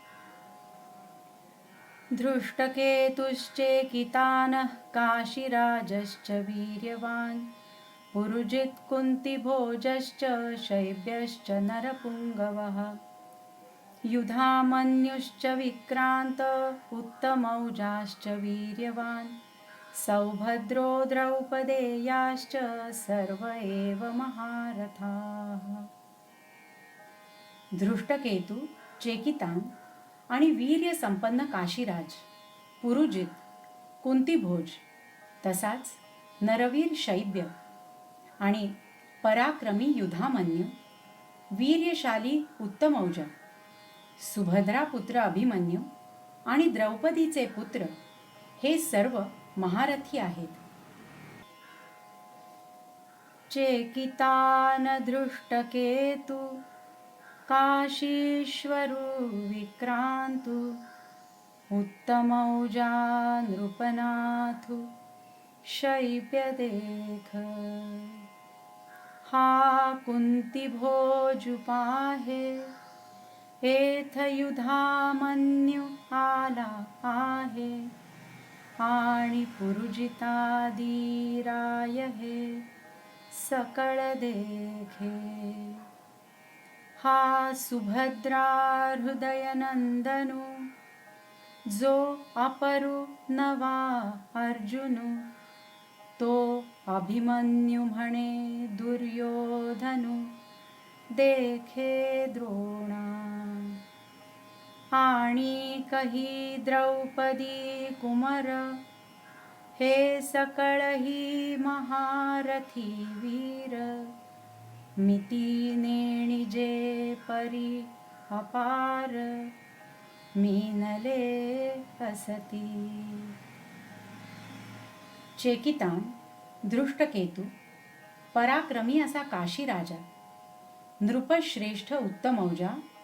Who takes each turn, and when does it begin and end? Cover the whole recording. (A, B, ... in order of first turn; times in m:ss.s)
0:02.1-0:07.5 A
0:08.1-0:13.0 A
0:14.0-0:19.4 A
0:19.9-0:25.9 A
0:27.7-0:29.7 A
0:30.3-0:32.3 A
0:32.8-0:33.4 A
0:34.0-0:34.8 A
0:35.4-0:37.5 A
0:38.4-0:40.7 A
0:41.5-0:43.3 A
0:44.2-0:45.9 A
0:46.5-0:47.9 A
0:48.6-0:50.6 A
0:53.5-0:56.6 A
0:57.5-1:00.8 A
1:01.7-1:04.9 A
1:05.6-1:08.2 A
1:09.2-1:12.7 A
1:13.6-1:17.9 A
1:18.8-1:22.6 A
1:23.3-1:25.9 A
1:27.0-1:30.7 A
1:31.6-1:35.3 A
1:36.2-1:40.4 A
1:41.1-1:43.8 A
1:44.9-1:48.8 A
1:49.8-1:54.1 A
1:55.0-1:59.5 A
2:00.3-2:03.4 A
2:05.4-2:07.5 A
2:08.3-2:10.0 A
2:11.0-2:12.8 A